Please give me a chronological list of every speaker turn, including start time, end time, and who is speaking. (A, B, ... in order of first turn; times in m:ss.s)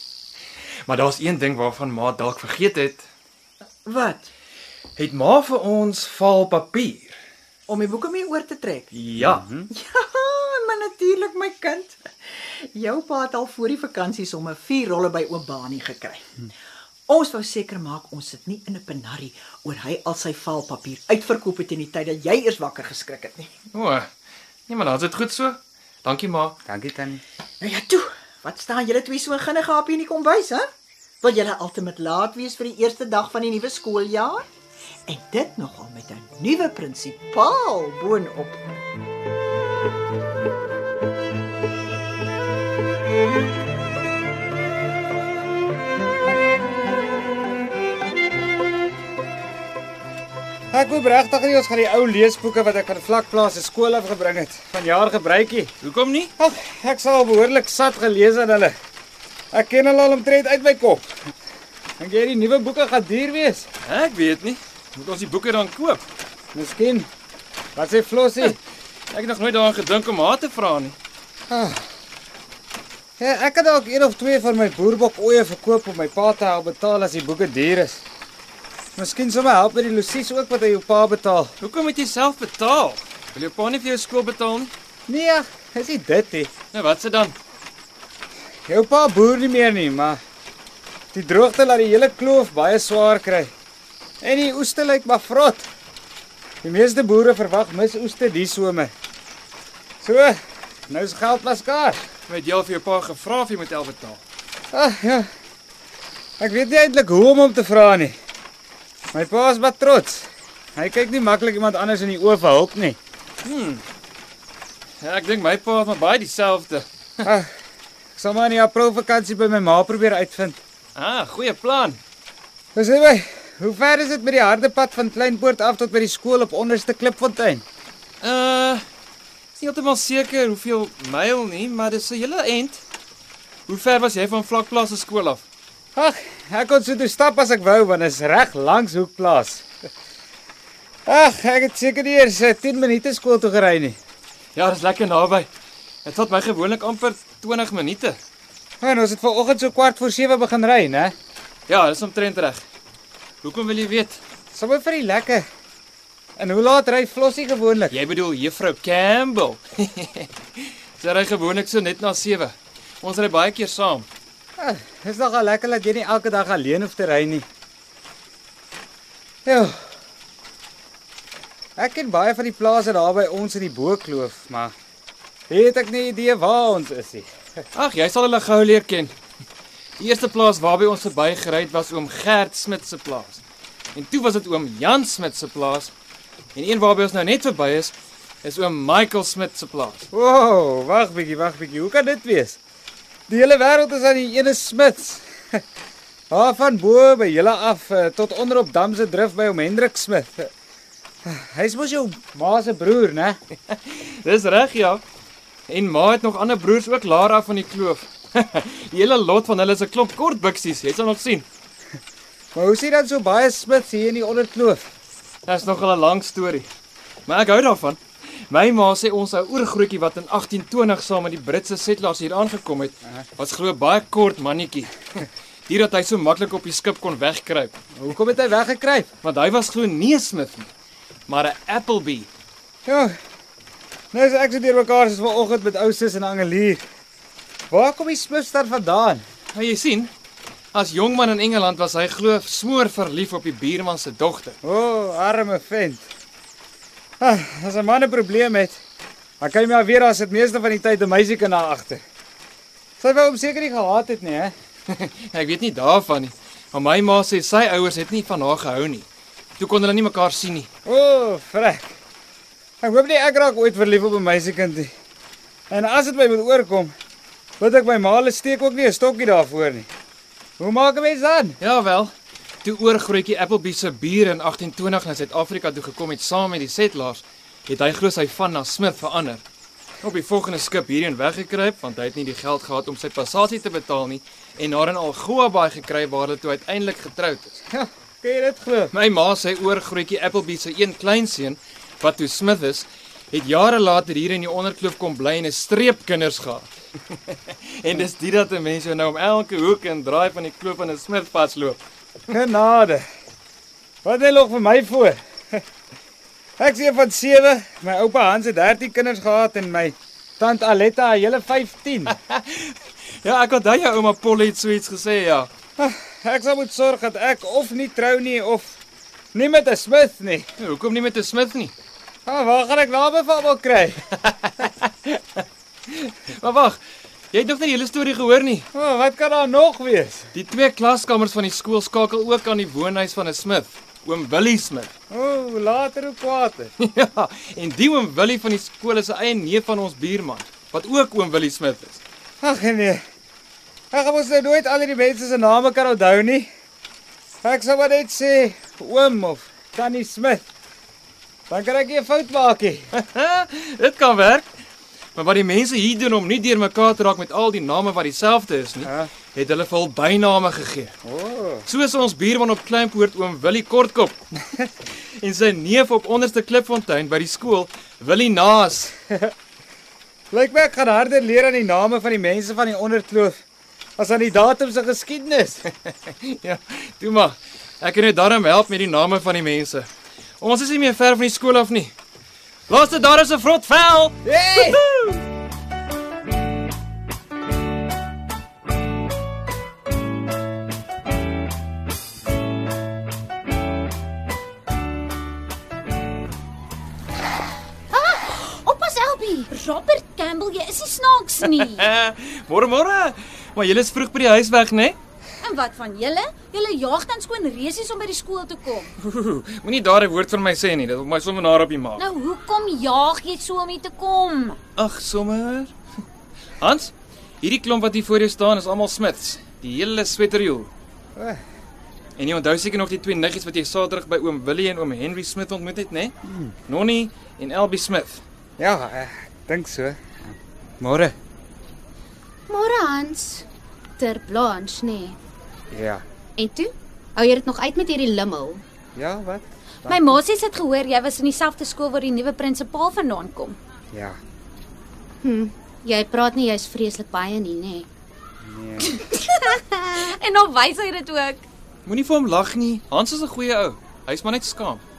0:00.9-0:03.1 A
0:03.9-0:04.3 B
0:05.0-0:07.2 A
0:07.7-0:08.9 B
0:08.9-0:09.4 A
0:09.2-0:09.7 C
0:09.7-0:16.2 B
0:17.1-0:23.5 B
0:23.7-0:24.1 A
0:24.7-0:26.6 A
0:26.7-0:27.2 C
0:27.6-0:30.6 B
0:31.2-0:34.4 B
0:35.1-0:38.6 B
0:50.7-0:55.7 C
0:55.8-0:56.3 A
0:56.4-0:58.7 C
0:59.5-1:01.1 C
1:02.0-1:03.7 C
1:03.8-1:06.0 A
1:06.5-1:07.1 C
1:07.8-1:08.6 C
1:09.1-1:11.0 A
1:11.5-1:11.9 C
1:13.2-1:18.0 C
1:19.0-1:21.5 C
1:21.6-1:24.7 A
1:25.1-1:26.5 C
1:26.7-1:27.4 A
1:28.7-1:30.2 C
1:31.1-1:33.5 C
1:34.2-1:35.7 C
1:36.6-1:38.9 C
1:40.0-1:40.4 C
1:40.9-1:42.0 C
1:42.3-1:44.2 A
1:44.7-1:45.3 C
1:46.4-1:48.2 C
1:49.1-1:53.0 C
1:53.4-1:53.8 A
1:55.0-1:56.9 A
1:57.2-1:57.5 C
1:58.2-2:00.6 C
2:01.0-2:02.0 A
2:02.8-2:07.6 C
2:08.2-2:08.8 A
2:09.6-2:12.8 A
2:13.7-2:15.4 A
2:16.0-2:19.6 C
2:21.1-2:24.0 C
2:24.6-2:25.5 A
2:26.0-2:28.2 A
2:28.8-2:31.1 C
2:31.7-2:32.6 A
2:33.4-2:34.2 A
2:34.5-2:35.5 C
2:36.4-2:38.0 C
2:37.9-2:44.1 A
2:44.6-2:47.5 C
2:49.4-2:49.8 C
2:51.8-2:54.7 C
2:55.5-2:57.3 C
2:57.8-2:59.1 A
3:00.0-3:03.4 A
3:04.0-3:05.9 A
3:06.6-3:10.1 A
3:10.1-3:12.6 C
3:13.3-3:15.3 C
3:16.3-3:20.5 C
3:21.3-3:23.4 C
3:23.7-3:25.0 A
3:25.7-3:31.5 A
3:32.5-3:34.8 C
3:35.5-3:36.7 A
3:37.3-3:38.0 A
3:38.5-3:47.8 A
3:48.0-3:49.1 C
3:49.2-3:50.7 A
3:51.3-3:52.3 A
3:52.8-3:53.1 C
3:54.1-3:56.8 C
3:57.7-3:59.2 C
3:59.5-4:00.1 A
4:00.7-4:04.6 A
4:04.6-4:06.0 C
4:07.2-4:08.8 C
4:09.4-4:12.0 C
4:13.0-4:14.5 C
4:14.9-4:19.1 A
4:19.6-4:20.7 A
4:20.9-4:22.0 C
4:22.8-4:24.9 C
4:25.7-4:26.9 C
4:27.6-4:29.9 C
4:30.6-4:31.6 C
4:31.6-4:32.1 A
4:32.6-4:39.4 A
4:40.0-4:47.6 A
4:47.7-4:48.9 C
4:48.9-4:56.7 A
4:57.3-5:01.8 A
5:02.3-5:03.0 C
5:04.0-5:05.6 C
5:06.6-5:12.1 C
5:12.2-5:15.5 A
5:15.8-5:18.8 C
5:19.3-5:20.5 C
5:20.6-5:21.7 A
5:22.3-5:24.0 C
5:24.3-5:24.9 A
5:25.9-5:26.8 A
5:27.3-5:28.7 A
5:28.7-5:30.3 C
5:30.3-5:34.9 A
5:35.1-5:36.7 C
5:36.8-5:42.0 A
5:42.4-5:43.0 C
5:43.9-5:46.5 C
5:47.4-5:50.4 C
5:51.5-5:52.9 C
5:53.0-5:54.5 A
5:55.2-6:01.0 A
5:58.8-5:59.1 C
6:01.0-6:01.6 C
6:01.7-6:08.9 A
6:10.3-6:13.4 C
6:14.0-6:15.6 C
6:16.1-6:19.9 A
6:20.4-6:21.9 A
6:22.7-6:25.2 A
6:24.2-6:24.8 C
6:37.9-6:41.9 D
6:41.4-6:45.0 A
6:45.4-6:48.9 D
6:49.0-6:52.1 A
6:52.0-6:54.6 D
6:54.8-6:55.7 A
6:56.6-7:00.7 A
7:01.2-7:01.4 C
7:02.2-7:06.2 A
7:06.3-7:06.5 C
7:06.7-7:08.2 A
7:08.6-7:10.2 C
7:10.8-7:11.1 C
7:12.5-7:13.5 E
7:14.0-7:15.2 E
7:15.7-7:16.0 C
7:16.4-7:18.6 E
7:19.0-7:20.2 C
7:19.9-7:23.6 D
7:23.9-7:24.2 C
7:25.2-7:27.9 E
7:28.4-7:29.0 C
7:28.9-7:31.4 D
7:31.9-7:34.8 A